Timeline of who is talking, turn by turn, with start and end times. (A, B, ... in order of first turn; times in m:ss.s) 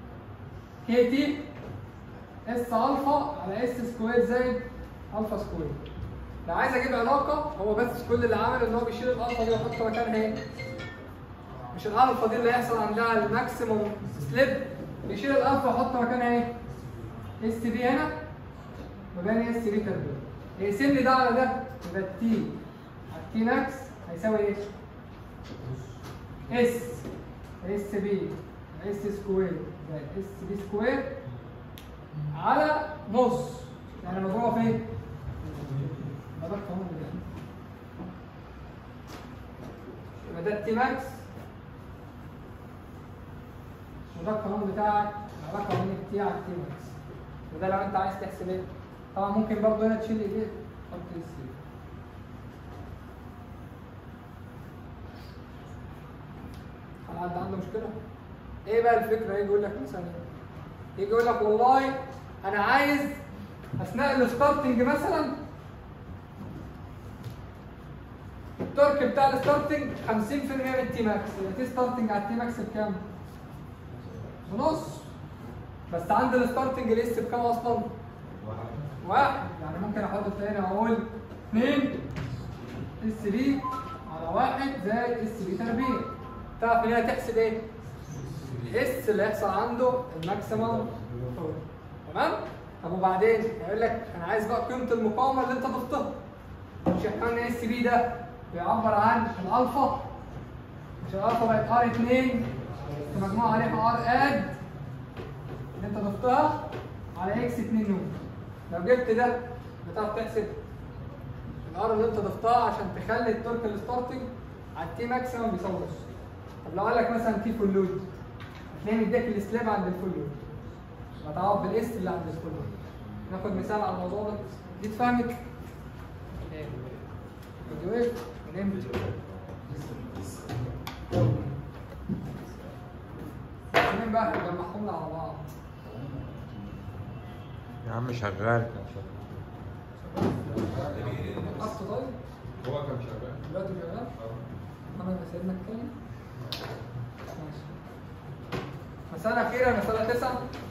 0:00.8-0:01.5 A
0:02.5-0:05.8 A
0:06.5-0:10.4 A
0:11.7-0:16.5 A
0:17.4-0:18.1 A
0:19.1-0:22.6 A
0:23.1-0:24.6 A
0:26.5-0:27.1 A
0:27.6-0:31.1 A
0:32.3-0:34.9 A
0:35.4-0:37.2 A
0:40.3-0:41.2 A
0:44.1-0:46.9 A
0:47.5-0:51.6 A
0:57.1-0:57.9 A
0:58.7-1:00.2 A
1:01.0-1:03.2 A
1:03.8-1:05.4 A
1:08.7-1:13.0 A
1:14.5-1:15.1 A
1:15.9-1:17.9 A
1:18.4-1:18.9 B
1:19.0-1:22.0 A
1:23.0-1:27.6 A
1:28.6-1:36.1 A
1:36.8-1:40.1 A
1:41.0-1:44.6 A
1:45.8-1:46.6 A
1:47.2-1:48.1 A
1:48.7-1:50.6 A
1:51.6-1:56.1 A
1:56.6-1:58.1 A
1:58.7-2:00.4 A
2:01.2-2:02.7 A
2:03.3-2:05.4 A
2:06.5-2:06.8 A
2:07.7-2:08.9 A
2:08.8-2:10.6 B
2:11.1-2:11.5 A
2:13.7-2:15.5 A
2:17.8-2:19.2 B
2:20.0-2:20.5 A
2:20.5-2:21.7 C
2:21.2-2:22.2 A
2:22.6-2:23.4 C
2:23.4-2:24.1 A
2:24.9-2:25.9 A
2:27.4-2:27.8 A
2:29.1-2:30.4 A